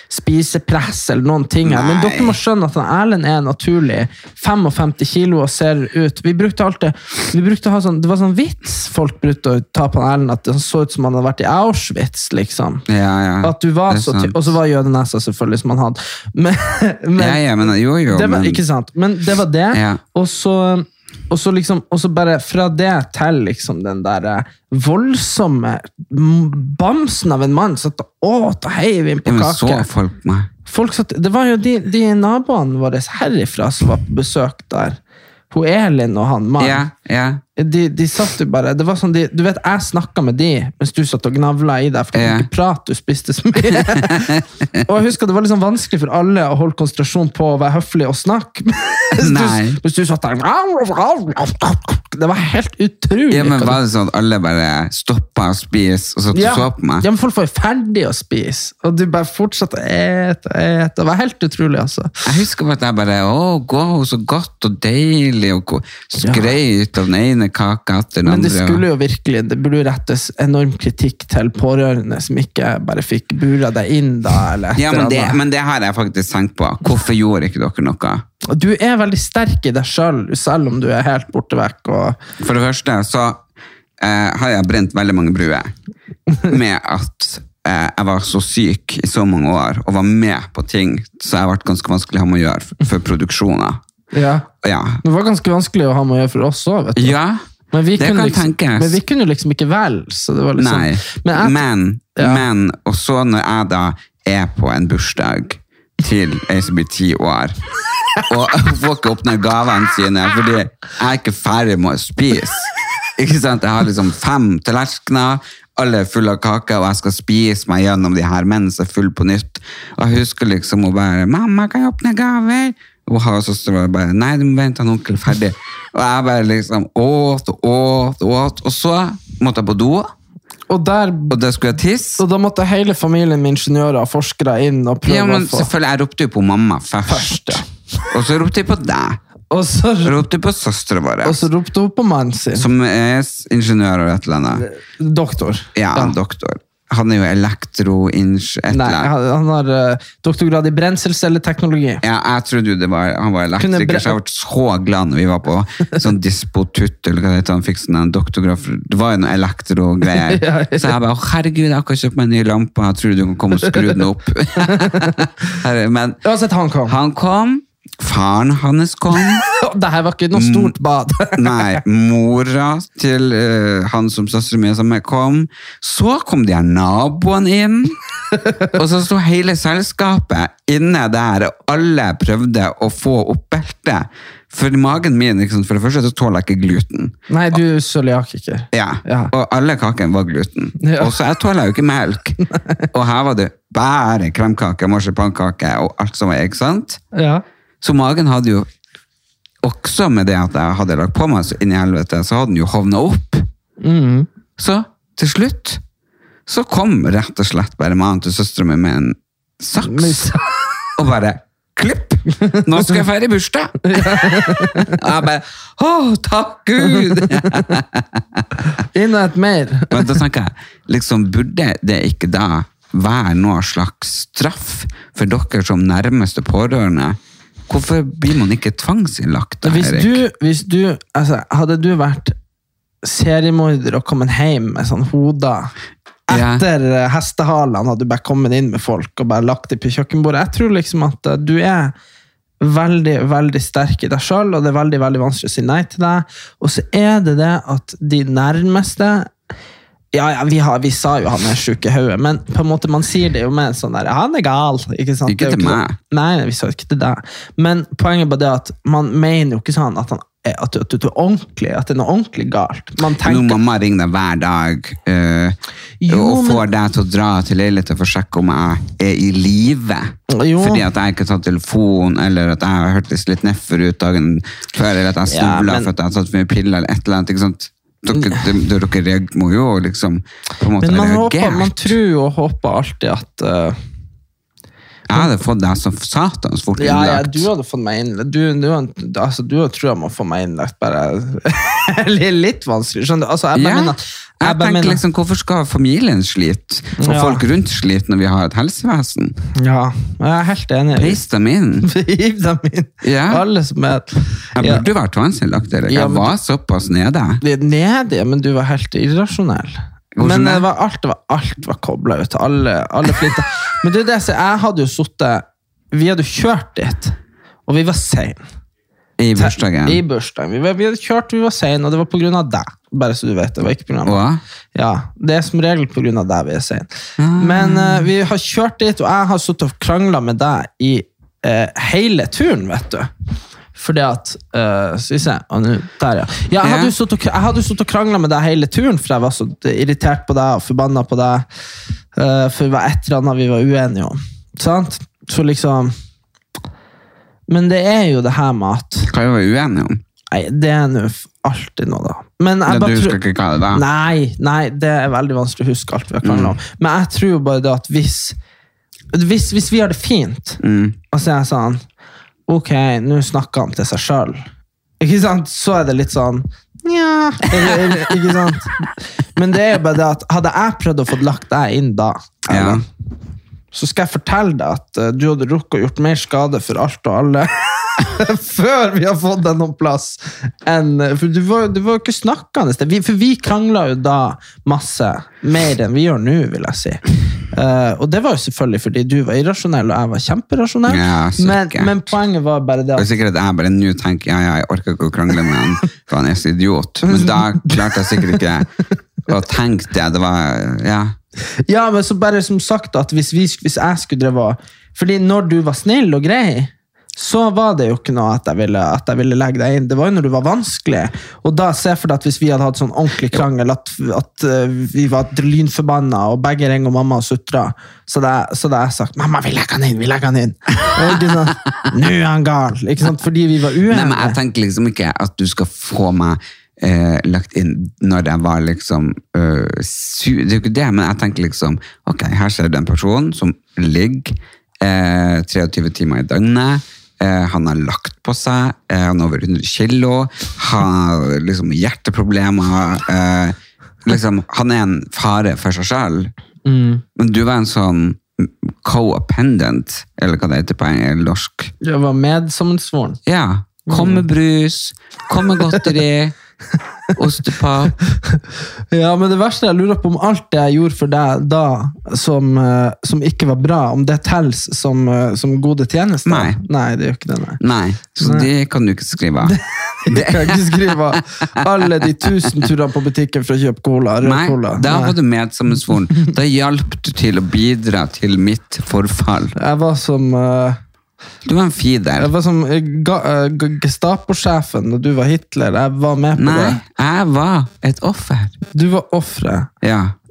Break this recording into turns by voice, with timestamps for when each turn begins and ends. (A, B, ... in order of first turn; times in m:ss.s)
0:00.1-0:12.9 A
0:01.6-0:02.4 B
0:12.9-0:14.5 B
0:13.4-0:17.4 A
0:17.2-0:18.6 B
0:18.1-0:29.9 A
0:19.7-0:20.0 B
0:29.2-0:30.5 B
0:30.7-0:35.0 A
0:35.5-0:36.9 A
0:36.6-0:37.4 B
0:37.6-0:53.8 A
0:42.1-0:42.5 B
0:43.7-0:44.8 B
0:49.2-0:49.8 B
0:53.3-0:57.1 B
0:56.3-1:02.2 A
1:02.2-1:08.8 B
1:06.2-1:06.5 A
1:08.2-1:15.4 A
1:14.8-1:18.2 B
1:18.4-1:22.2 A
1:22.4-1:23.4 B
1:24.0-1:25.7 B
1:26.4-1:33.8 B
1:34.1-1:34.5 A
1:34.6-1:35.0 B
1:35.0-1:37.2 A
1:37.0-1:37.4 B
1:37.7-1:41.6 A
1:38.0-1:39.0 B
1:40.6-1:47.6 B
1:42.2-1:42.4 A
1:48.3-2:10.1 B
2:10.7-2:11.4 A
2:11.3-2:12.2 B
2:12.2-2:15.7 A
2:15.0-2:19.2 B
2:17.1-2:17.7 A
2:19.5-2:20.2 A
2:20.0-2:21.4 B
2:21.2-2:22.7 A
2:22.6-2:24.6 B
2:24.6-2:26.2 A
2:25.8-2:29.1 B
2:28.7-2:32.0 A
2:32.0-2:46.2 B
2:33.6-2:34.2 A
2:40.1-2:41.0 A
2:44.6-2:45.3 A
2:46.2-2:47.0 A
2:46.9-2:49.4 B
2:49.5-2:51.8 A
2:50.3-2:50.8 B
2:51.3-2:58.0 B
2:58.7-3:07.2 B
3:07.3-3:09.3 A
3:08.7-3:12.4 B
3:10.8-3:11.2 A
3:12.9-3:17.0 B
3:17.1-3:17.4 A
3:17.8-3:18.7 B
3:19.6-3:23.5 B
3:23.8-3:24.3 A
3:24.6-3:25.8 B
3:26.5-3:30.4 B
3:29.8-3:30.4 A
3:31.0-3:38.4 B
3:33.8-3:35.0 A
3:36.8-3:37.8 A
3:38.8-3:40.2 A
3:39.9-3:50.2 B
3:49.6-3:52.4 A
3:53.0-3:55.7 A
3:56.3-4:01.9 A
3:56.3-3:56.7 B
4:02.6-4:09.3 A
4:10.1-4:23.6 A
4:15.3-4:16.0 B
4:23.2-4:42.0 B
4:26.0-4:26.6 A
4:30.3-4:30.8 A
4:35.3-4:35.9 A
4:38.1-4:38.5 A
4:40.8-4:43.8 A
4:45.1-4:47.5 B
4:46.8-4:55.0 A
4:53.6-4:59.4 B
4:57.0-4:57.4 A
4:59.6-5:01.2 A
5:01.0-5:01.9 B
5:01.8-5:04.9 A
5:03.0-5:03.4 B
5:04.6-5:07.4 B
5:05.9-5:06.3 A
5:07.4-5:17.2 A
5:10.2-5:10.7 B
5:17.7-5:18.4 A
5:19.2-5:20.0 B
5:19.4-5:24.2 A
5:24.0-5:24.4 B
5:24.8-5:33.1 A
5:27.2-5:28.1 B
5:33.8-5:41.5 A
5:36.6-5:36.9 B
5:42.2-5:45.9 A
5:47.5-5:49.1 A
5:49.1-5:50.0 B
5:50.3-5:53.2 A
5:52.7-5:53.8 B
5:53.7-5:58.4 A
5:56.2-5:56.6 B
5:59.1-6:00.6 A
6:00.6-6:01.0 B
6:01.1-6:01.8 A
6:02.5-6:04.4 A
6:05.0-6:08.8 A
6:09.4-6:12.8 A
6:12.5-6:12.8 B
6:13.7-6:33.1 A
6:30.9-6:32.1 B
6:33.0-6:38.7 B
6:37.1-6:38.4 A
6:39.3-6:41.2 B
6:41.7-7:04.4 A
7:00.9-7:01.5 B
7:03.9-7:26.3 B
7:26.6-7:27.0 A
7:27.2-7:31.7 B
7:31.8-7:33.2 A
7:33.3-7:36.4 B
7:33.9-7:34.2 A
7:37.2-7:38.0 B
7:38.9-7:47.6 A
7:46.2-7:46.6 B
7:47.6-7:51.2 B
7:48.2-7:48.5 A
7:49.4-7:55.2 A
7:54.2-7:59.5 B
7:59.6-8:00.8 A
8:01.4-8:02.3 B
8:02.2-8:06.8 A
8:06.4-8:08.6 B
8:08.7-8:09.7 A
8:09.8-8:10.2 B